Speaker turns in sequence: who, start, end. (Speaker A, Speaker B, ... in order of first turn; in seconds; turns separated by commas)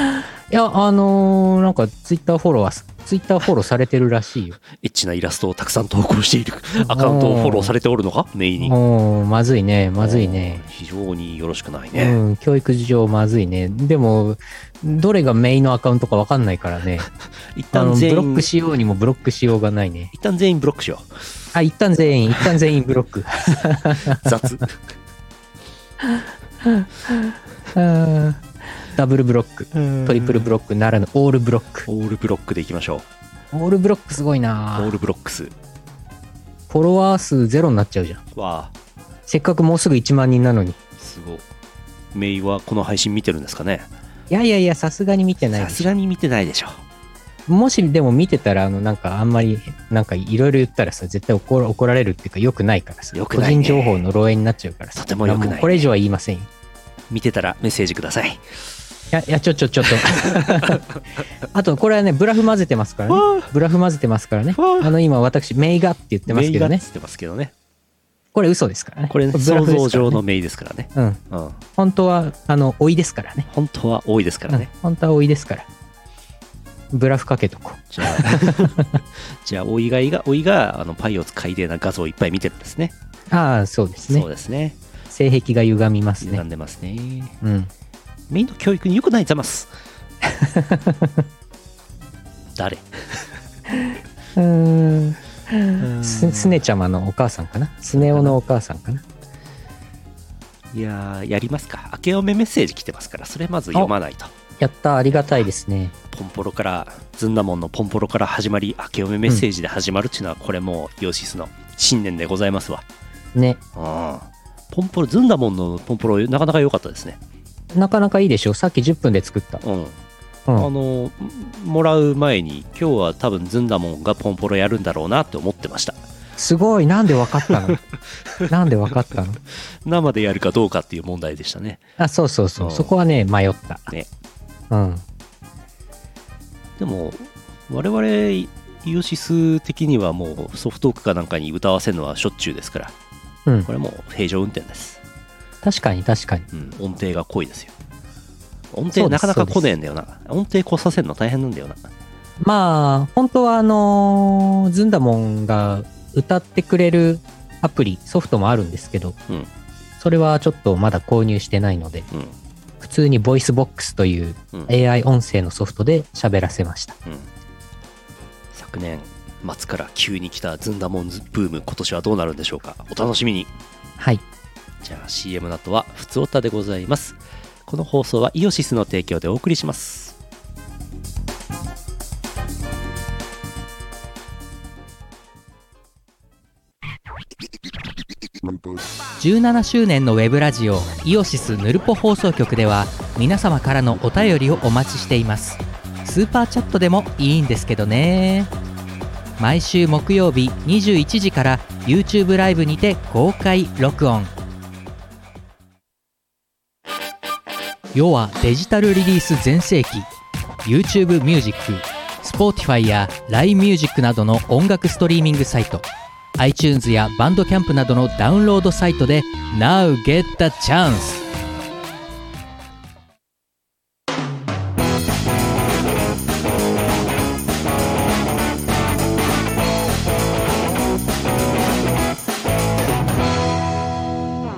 Speaker A: 0.5-4.6, Speaker B: 4.7-8.8, Speaker A: 6.8-7.7, Speaker A: 8.6-10.6, Speaker B: 10.0-12.2, Speaker A: 11.9-17.1, Speaker B: 17.5-18.5, Speaker A: 17.7-20.1, Speaker B: 20.1-21.3, Speaker A: 21.5-24.5, Speaker B: 24.1-24.8, Speaker A: 27.7-31.9, Speaker B: 29.7-30.5, Speaker B: 31.9-33.1, Speaker A: 33.5-34.9, Speaker B: 34.7-35.5, Speaker A: 36.7-38.2, Speaker B: 38.3-38.7, Speaker A: 39.3-40.8, Speaker B: 41.0-41.4, Speaker B: 42.1-43.9, Speaker A: 44.3-45.9, Speaker B: 45.5-46.8, Speaker A: 47.5-56.5, Speaker B: 53.1-54.0, Speaker B: 54.9-55.9, Speaker B: 57.1-58.4, Speaker A: 59.1-60.8, Speaker B: 60.0-60.9, Speaker A: 61.5-66.8, Speaker B: 63.1-63.5, Speaker B: 64.5-64.9, Speaker B: 66.3-67.5, Speaker A: 68.3-70.2, Speaker B: 69.1-71.6, Speaker A: 70.9-71.2, Speaker A: 71.8-73.5, Speaker B: 73.5-74.7, Speaker A: 74.5-75.7, Speaker A: 76.9-78.9, Speaker B: 77.9-82.9, Speaker A: 83.3-84.2, Speaker B: 84.1-84.8, Speaker A: 85.1-86.4, Speaker B: 86.2-87.4, Speaker A: 87.4-87.7, Speaker B: 88.3-89.7, Speaker A: 90.2-91.2, Speaker B: 92.5-93.3, Speaker A: 94.3-99.0, Speaker B: 95.8-96.6, Speaker B: 98.0-98.3, Speaker B: 100.7-104.3, Speaker A: 104.6-105.9, Speaker B: 106.1-112.8, Speaker A: 113.3-113.6, Speaker B: 113.8-117.2, Speaker A: 117.7-119.6, Speaker B: 119.6-120.0, Speaker B: 120.5-126.0, Speaker A: 126.4-127.8, Speaker B: 127.5-128.5, Speaker A: 128.5-129.4, Speaker B: 129.8-131.8, Speaker A: 132.0-133.9, Speaker B: 132.6-132.9, Speaker A: 134.7-135.0, Speaker B: 136.8-142.9, Speaker B: 143.7-145.0, Speaker A: 145.6-146.4, Speaker B: 146.5-147.7, Speaker B: 148.7-151.9, Speaker A: 148.9-149.6, Speaker A: 152.4-159.2, Speaker A: 160.0-162.1, Speaker A: 162.8-167.0, Speaker B: 168.5-173.5, Speaker B: 174.8-180.2, Speaker C: 189.2-198.5, Speaker C: 199.4-204.3, Speaker C: 207.9-210.1, Speaker C: 210.6-215.8, Speaker C: 216.4-221.2